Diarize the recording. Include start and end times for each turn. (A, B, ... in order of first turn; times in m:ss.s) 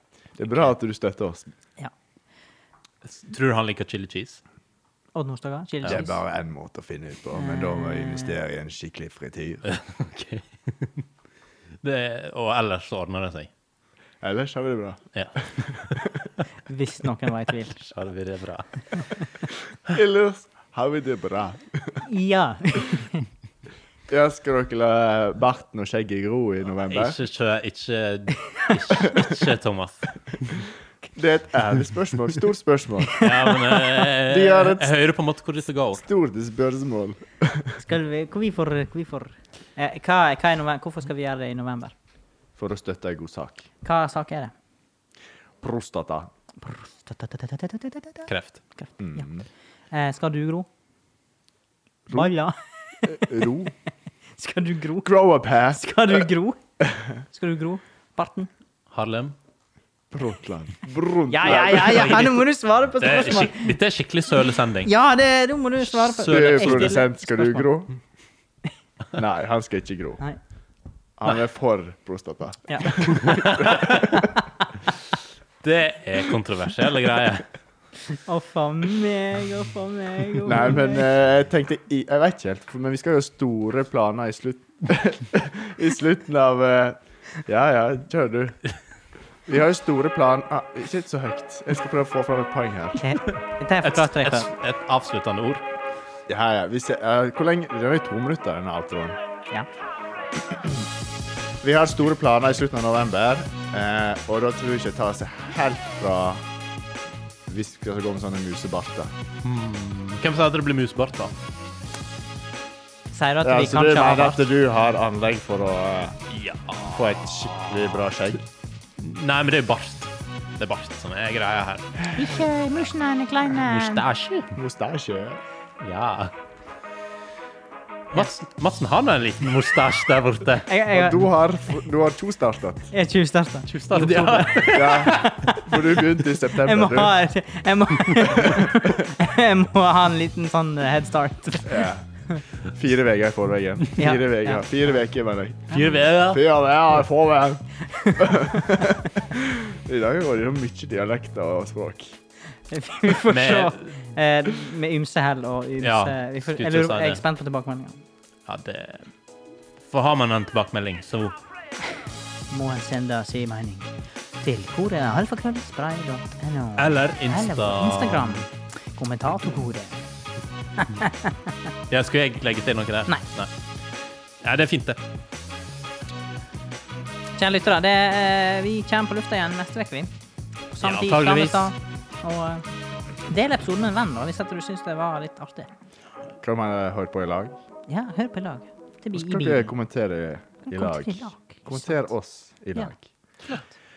0:00.3-0:01.5 A
0:03.0-0:04.4 B
0:05.1-0:06.2 C
0:05.8-0:09.6 A
0:07.3-0:08.4 C
0:09.6-0:11.0 B
0:11.8-0:13.5 B
0:14.2-0:16.3 A
0:15.1-0:16.0 B
0:16.7-0:17.9 C
0:17.9-0:18.6 B
0:19.9-0:22.0 A
0:22.0-0:23.2 C
0:24.1-0:27.2 A
0:26.9-0:30.5 B
0:31.1-0:33.2 A
0:33.2-0:36.0 B
0:34.2-0:34.9 A
0:35.9-0:37.8 A
0:37.8-0:41.9 C
0:42.6-0:43.7 A
0:43.8-0:44.5 C
0:45.6-0:46.3 A
0:46.6-0:49.2 C
0:48.3-0:48.6 B
0:49.0-0:49.4 A
0:49.9-0:50.7 C
0:52.1-0:53.7 C
0:53.1-0:53.7 A
0:54.4-0:55.1 C
0:55.0-0:56.3 A
0:55.7-0:56.6 C
0:56.8-0:57.2 A
0:57.3-0:58.5 C
0:58.9-0:59.4 B
1:00.1-1:02.2 A
1:01.3-1:03.7 C
1:01.4-1:02.5 B
1:03.0-1:04.9 B
1:04.8-1:07.6 C
1:05.8-1:07.0 B
1:06.2-1:07.9 A
1:09.1-1:10.2 A
1:11.2-1:14.2 A
1:12.7-1:13.5 C
1:13.1-1:14.2 B
1:14.1-1:14.4 C
1:15.6-1:17.4 B
1:18.1-1:21.0 C
1:20.4-1:28.6 A
1:29.4-1:33.0 A
1:33.0-1:34.5 C
1:33.8-1:35.6 B
1:36.3-1:39.2 A
1:41.6-1:46.4 A
1:47.5-1:49.1 A
1:49.4-1:51.3 B
1:53.1-1:54.5 C
1:53.4-1:56.2 A
1:56.3-1:57.8 B
1:56.9-1:58.4 A
1:59.0-2:02.1 B
2:02.1-2:04.0 C
2:03.6-2:04.5 B
2:04.5-2:05.4 A
2:05.8-2:06.3 B
2:08.1-2:10.7 B
2:10.7-2:11.3 C
2:10.9-2:12.9 A
2:12.9-2:15.8 C
2:13.7-2:15.3 B
2:14.7-2:17.2 A
2:16.5-2:22.4 C
2:18.1-2:18.4 B
2:21.6-2:22.0 A
2:22.6-2:32.2 A
2:24.0-2:24.6 C
2:25.7-2:26.0 C
2:25.7-2:26.4 B
2:27.9-2:28.4 C
2:32.7-2:38.0 C
2:33.3-2:34.0 B
2:35.8-2:37.2 B
2:38.5-2:39.1 B
2:39.9-2:41.3 B
2:42.5-2:50.0 C
2:46.8-2:48.4 B
2:50.8-2:51.5 C
2:51.9-2:53.5 B
2:54.4-2:55.0 B
2:57.4-3:00.1 C
3:00.7-3:02.6 C
3:00.8-3:01.7 B
3:03.3-3:05.7 C
3:06.4-3:07.5 A
3:07.9-3:09.7 C
3:09.1-3:13.0 A
3:10.7-3:12.1 C